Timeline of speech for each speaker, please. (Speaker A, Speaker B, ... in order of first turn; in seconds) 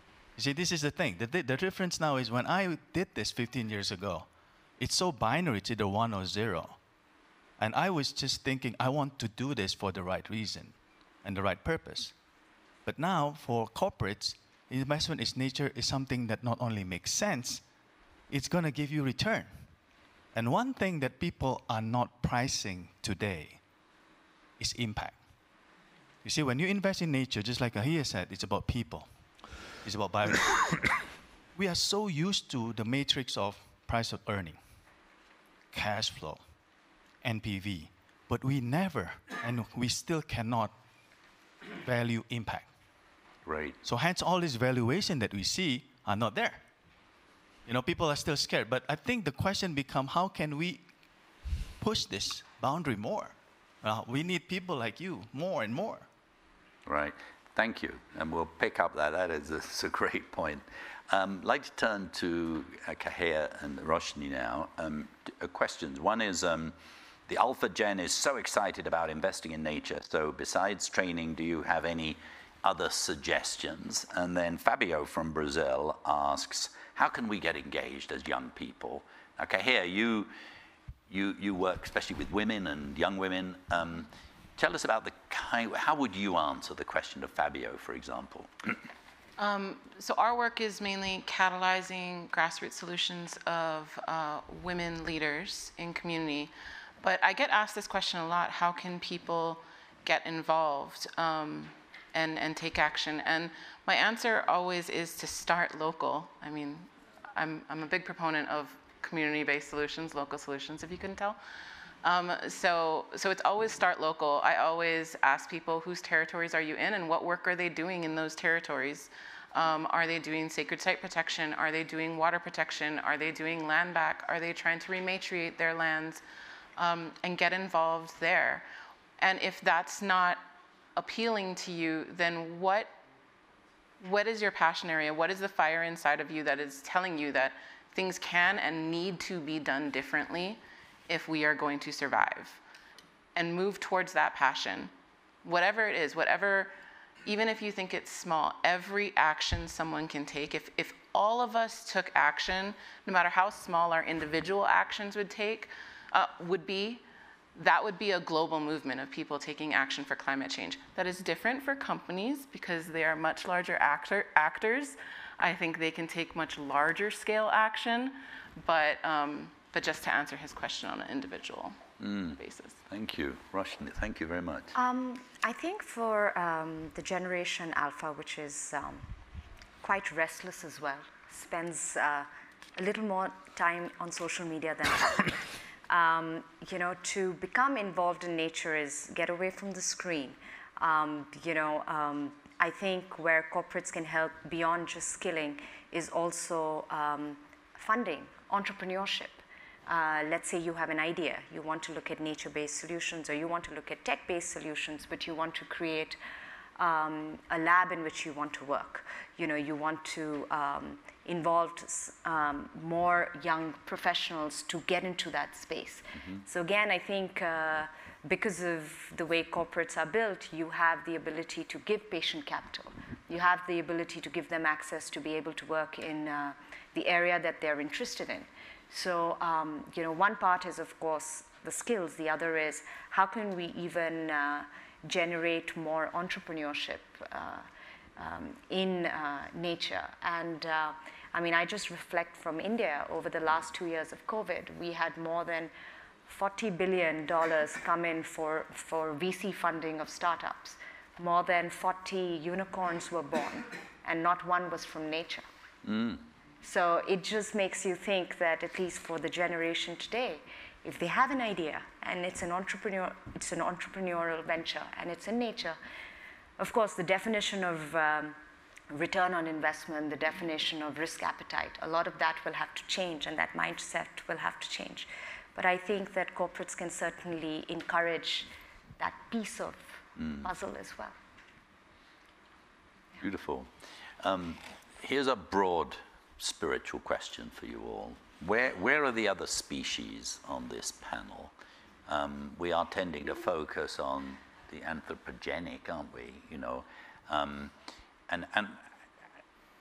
Speaker A: 0.4-6.8, 7.6-12.2, 12.8-17.6, 18.3-19.7, 20.3-23.6, 24.6-25.2, 26.2-29.1, 29.7-31.0, 31.5-34.6, 35.7-36.4, 37.2-40.8, 41.8-42.7, 43.8-46.6, 47.7-50.8, 51.8-56.1
Speaker B: 43.5-43.8, 56.9-66.8, 67.3-80.3, 81.1-88.8, 172.0-174.7, 255.8-256.2, 283.2-283.7, 284.2-291.5, 292.1-297.7, 298.3-298.9
Speaker C: 89.4-111.4, 112.0-126.2, 126.8-128.7, 129.2-130.4, 131.0-132.9, 134.0-142.6, 143.3-144.9, 145.4-146.7, 147.2-157.0, 157.6-171.8, 172.4-172.8
Speaker D: 174.8-179.1, 179.8-206.2, 206.8-237.7, 238.2-245.7, 246.3-255.4, 256.6-265.8, 266.6-268.4, 268.9-279.9, 280.4-281.2